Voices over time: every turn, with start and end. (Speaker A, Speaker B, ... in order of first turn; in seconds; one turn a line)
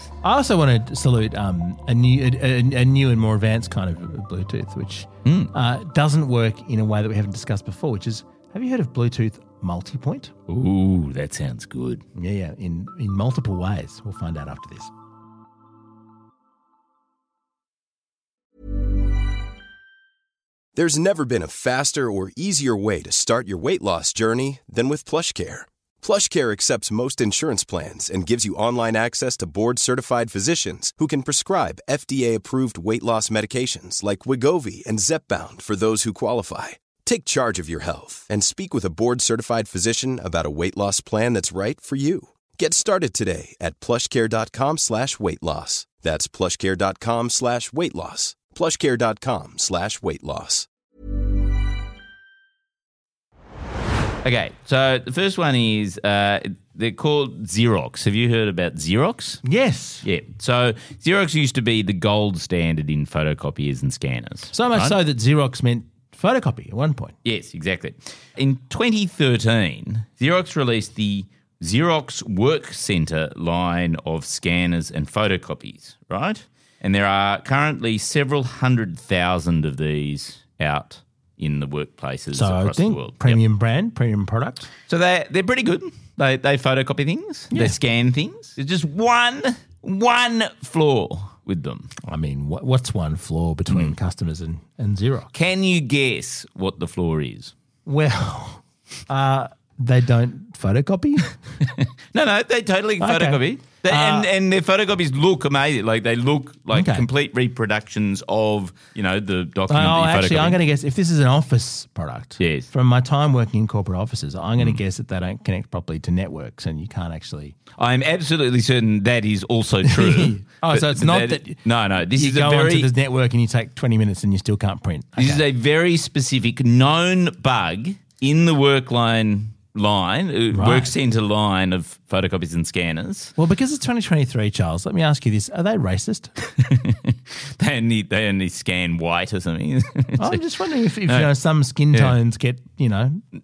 Speaker A: 0.2-10.3
Speaker B: 5.2-5.5
Speaker B: 10.5-12.0
Speaker A: 12.2-14.9
Speaker C: 20.8-50.7
Speaker B: 54.2-59.4
Speaker A: 59.4-60.0
Speaker B: 60.0-65.0
Speaker A: 64.5-67.1
Speaker B: 67.2-83.4
Speaker A: 82.3-84.7
Speaker B: 84.9-91.9
Speaker A: 87.5-87.8
Speaker A: 92.1-95.3
Speaker B: 95.3-97.5
Speaker A: 97.9-101.4
Speaker B: 101.6-110.6
Speaker A: 103.0-104.3
Speaker A: 106.7-107.1
Speaker A: 109.7-117.6
Speaker B: 112.4-112.7
Speaker B: 117.8-122.9
Speaker A: 119.8-125.4
Speaker B: 125.2-133.3
Speaker A: 130.5-130.9
Speaker A: 133.3-136.3
Speaker B: 136.6-140.4
Speaker A: 140.2-143.2